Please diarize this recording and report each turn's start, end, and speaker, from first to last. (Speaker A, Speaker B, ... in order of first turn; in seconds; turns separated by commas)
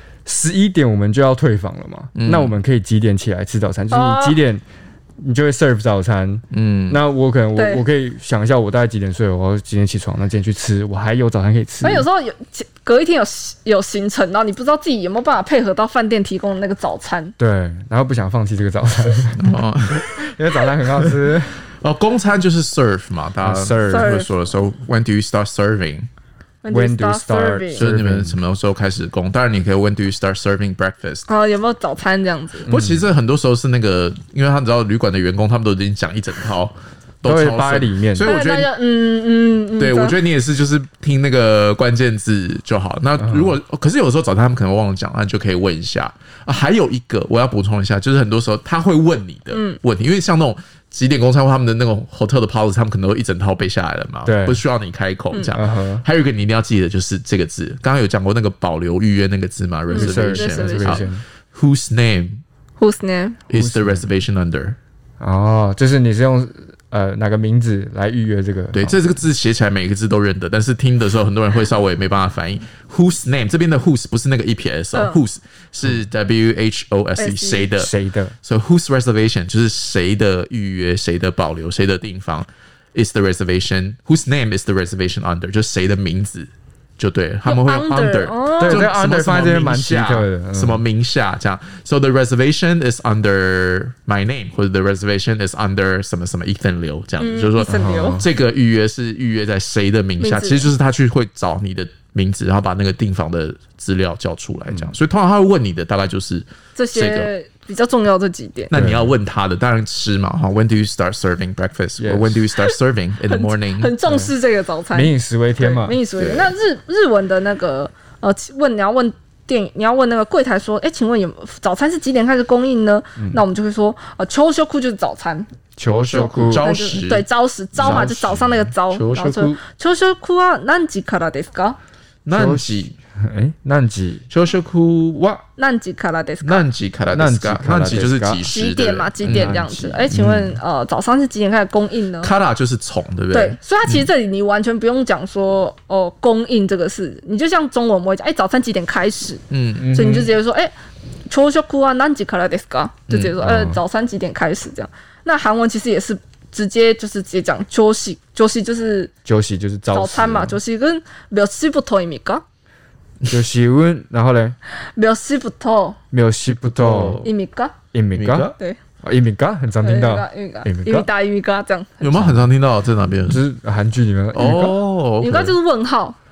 Speaker A: 0.3-4.6, Speaker B: 2.2-2.5, Speaker C: 3.9-4.4, Speaker A: 5.2-12.1, Speaker B: 6.5-7.0, Speaker C: 7.5-7.8, Speaker C: 11.8-17.3, Speaker A: 17.4-21.6, Speaker B: 19.4-20.2, Speaker B: 21.8-26.1, Speaker A: 23.4-24.1, Speaker C: 23.9-24.3, Speaker C: 26.6-27.9, Speaker A: 26.7-28.4, Speaker B: 27.7-31.3, Speaker C: 31.3-32.7, Speaker A: 32.7-33.1, Speaker B: 32.7-38.7, Speaker A: 37.2-38.3, Speaker C: 38.2-40.2, Speaker B: 39.8-62.4, Speaker A: 43.2-43.5, Speaker C: 49.5-49.8, Speaker A: 54.2-54.6, Speaker A: 55.5-56.0, Speaker C: 59.9-61.1, Speaker A: 59.9-61.2, Speaker C: 62.8-63.4, Speaker B: 63.5-64.8, Speaker A: 63.5-64.1, Speaker A: 65.2-69.0, Speaker B: 68.7-77.9, Speaker C: 74.9-75.2, Speaker C: 77.2-77.7, Speaker A: 77.8-78.3, Speaker B: 78.4-107.3, Speaker C: 87.5-88.9, Speaker A: 88.6-90.8, Speaker C: 97.2-98.2, Speaker A: 97.7-98.3, Speaker C: 100.2-100.7, Speaker C: 106.8-108.7, Speaker B: 108.7-114.0, Speaker A: 108.7-109.1, Speaker A: 112.0-112.5, Speaker C: 113.3-125.5, Speaker A: 114.1-114.3, Speaker A: 114.9-116.0, Speaker B: 116.2-116.5, Speaker A: 123.2-123.4, Speaker A: 125.8-126.7, Speaker B: 125.8-129.6, Speaker C: 126.5-131.8, Speaker A: 127.8-128.1, Speaker B: 132.2-132.9, Speaker A: 132.3-134.2, Speaker B: 134.3-135.4, Speaker C: 135.6-136.7, Speaker B: 136.4-139.6, Speaker A: 137.1-138.4, Speaker C: 138.5-142.3, Speaker A: 139.3-140.5, Speaker B: 142.2-144.1, Speaker C: 143.3-150.7, Speaker B: 149.5-150.1, Speaker A: 149.8-150.3, Speaker C: 151.3-159.1, Speaker B: 153.1-153.5, Speaker A: 153.4-153.8, Speaker A: 159.2-160.6, Speaker C: 159.9-162.4, Speaker A: 163.3-164.6, Speaker C: 164.9-166.0, Speaker A: 166.1-167.2, Speaker B: 166.5-167.3, Speaker C: 167.2-167.7, Speaker A: 167.9-171.1, Speaker B: 168.1-168.6, Speaker C: 169.8-172.1, Speaker B: 172.0-173.4, Speaker A: 172.1-172.5, Speaker A: 173.3-174.8, Speaker B: 174.3-175.6, Speaker C: 175.2-176.2